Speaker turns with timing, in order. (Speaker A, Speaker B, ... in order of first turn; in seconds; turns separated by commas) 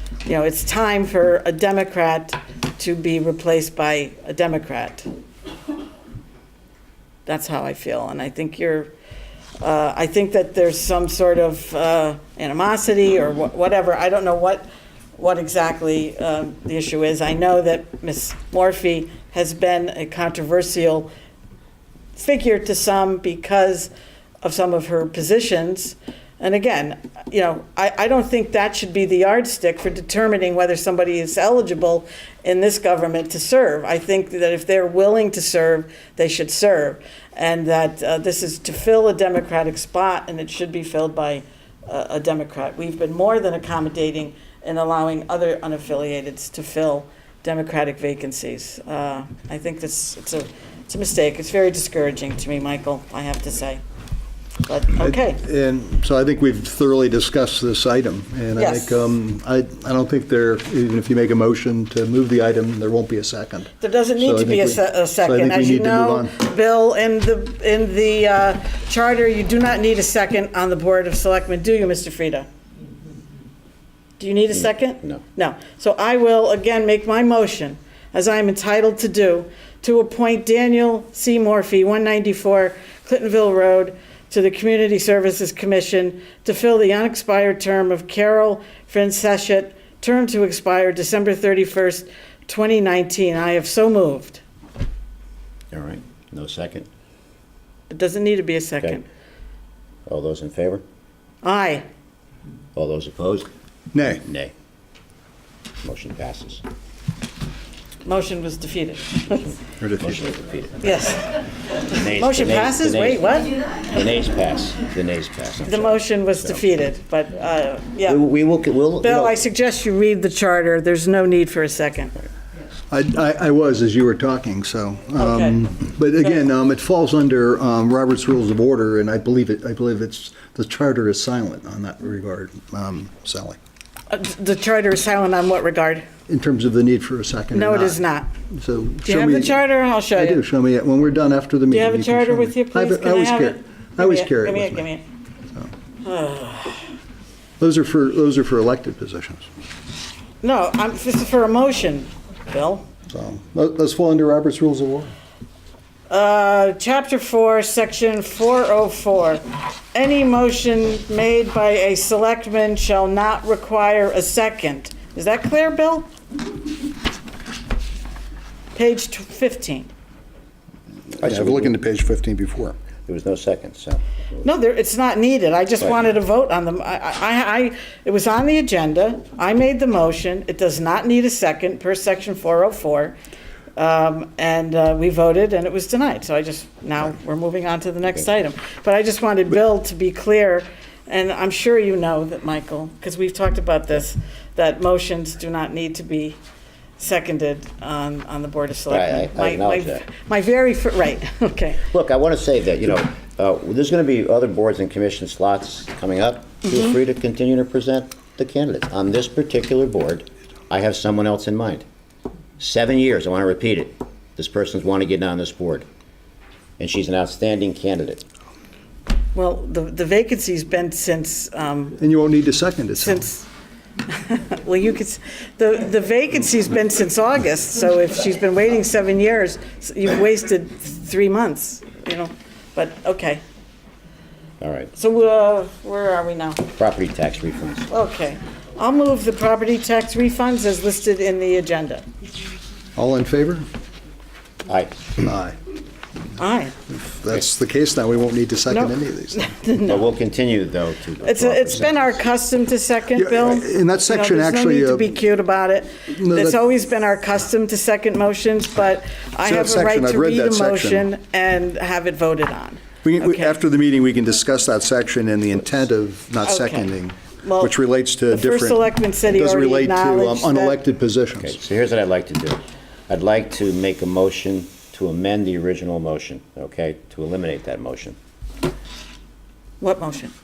Speaker A: 0.2-5.1, Speaker A: 7.2-8.9, Speaker A: 9.6-21.1, Speaker A: 22.1-23.9, Speaker A: 24.4-53.8, Speaker A: 54.6-55.4, Speaker B: 55.0-66.3, Speaker A: 58.5-59.0, Speaker A: 63.8-72.5, Speaker A: 74.2-94.4, Speaker C: 95.7-96.9, Speaker A: 97.9-99.0, Speaker C: 100.1-100.8, Speaker A: 101.4-101.8, Speaker C: 102.8-103.5, Speaker B: 103.9-104.2, Speaker C: 104.0-104.5, Speaker C: 105.8-106.6, Speaker A: 108.0-109.5, Speaker B: 109.8-110.2, Speaker C: 110.0-110.8, Speaker A: 110.8-113.6, Speaker C: 111.9-116.6, Speaker A: 115.7-118.2, Speaker C: 118.0-119.4, Speaker A: 119.0-122.1, Speaker B: 122.9-133.6, Speaker A: 125.2-125.6, Speaker A: 134.1-136.0, Speaker B: 136.3-138.0, Speaker A: 137.5-138.3, Speaker B: 138.5-144.8, Speaker A: 139.0-140.4, Speaker A: 141.7-145.0, Speaker A: 146.0-146.9, Speaker B: 147.6-149.4, Speaker A: 150.4-152.8, Speaker B: 153.1-155.1, Speaker A: 156.1-159.4, Speaker A: 159.9-166.1, Speaker A: 168.7-169.9, Speaker B: 171.2-172.8, Speaker C: 171.2-171.7, Speaker C: 173.1-174.0, Speaker A: 174.4-183.2, Speaker A: 183.8-196.4, Speaker A: 197.0-201.8, Speaker C: 198.9-200.0, Speaker C: 201.9-211.8, Speaker C: 212.6-215.9, Speaker C: 216.8-218.2, Speaker A: 219.3-222.0, Speaker B: 222.0-223.2, Speaker A: 223.0-223.5, Speaker A: 224.1-233.4, Speaker C: 234.6-234.9, Speaker A: 234.9-236.7, Speaker C: 236.8-237.9, Speaker A: 237.9-242.0, Speaker B: 242.9-243.6, Speaker C: 244.7-245.1, Speaker B: 245.2-245.6, Speaker A: 246.4-246.7, Speaker B: 246.9-249.4, Speaker A: 248.7-250.0, Speaker C: 249.8-251.9, Speaker A: 251.2-263.6, Speaker B: 253.1-255.1, Speaker B: 256.1-256.6, Speaker B: 259.4-261.1, Speaker B: 263.0-271.6, Speaker A: 266.4-266.9, Speaker A: 267.4-270.8, Speaker C: 271.4-278.1, Speaker A: 279.8-280.3